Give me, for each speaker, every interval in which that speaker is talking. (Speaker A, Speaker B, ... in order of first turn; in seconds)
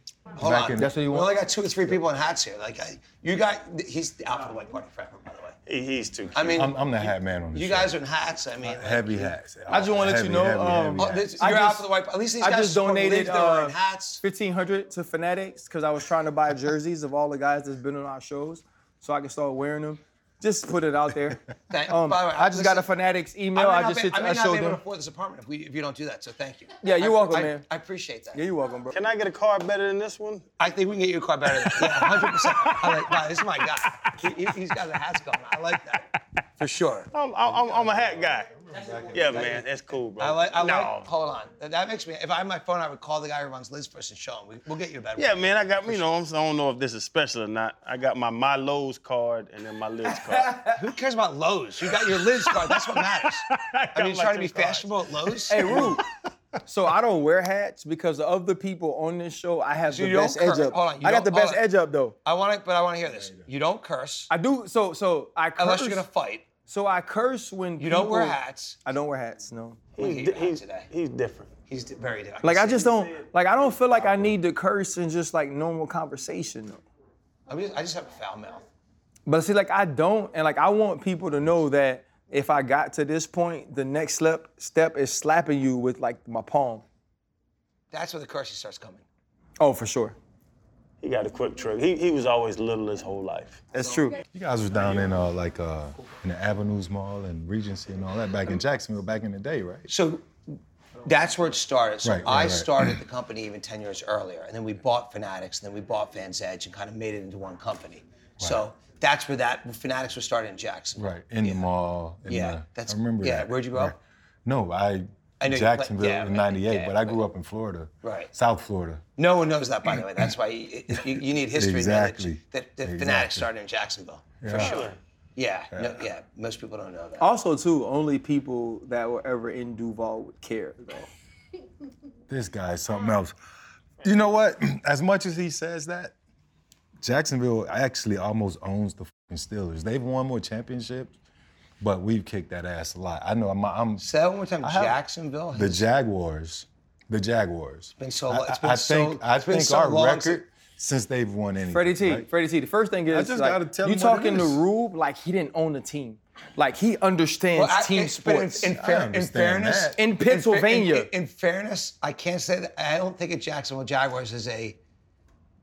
Speaker A: 0.4-5.5, 6.3-9.3, 11.0-14.2, 21.7-22.9, 23.6-28.4, 30.6-37.1, 38.7-39.7, 40.2-46.0, 50.7-55.8, 59.9-61.6, 62.2-64.3, 65.6-66.5, 67.8-68.8, 70.0-70.9, 71.7-73.0, 77.5-78.6, 87.9-89.0, 99.9-111.7, 112.3-114.0, 115.4-117.2, 118.0-118.3, 119.2-127.3, 144.0-145.9, 148.0-150.4, 157.5-164.8
Speaker B: 0.4-1.0, 6.4-8.0, 8.6-11.4, 37.4-39.6, 63.1-63.5, 94.3-99.9, 102.0-103.0, 111.0-119.0, 121.5-123.5, 124.4-124.9, 125.7-126.0, 132.3-133.4, 134.0-136.2, 137.0-141.1, 141.8-144.1, 144.6-145.0, 145.5-152.3, 153.1-154.6, 158.8-160.0
Speaker C: 0.8-1.3, 9.7-11.9, 12.4-24.8, 26.8-27.6, 28.3-29.0, 50.2-50.8, 55.5-56.0, 56.7-62.2, 64.3-66.0, 66.7-69.8, 72.4-76.8, 79.3-86.8, 89.6-90.2, 93.7-94.2, 127.2-131.1, 151.7-158.7, 160.0-161.1
Speaker D: 5.7-6.7, 28.9-30.4, 31.5-34.3, 37.1-38.5, 39.1-41.0, 45.2-50.6, 51.9-55.4, 70.0-71.5, 91.0-93.6, 124.5-125.0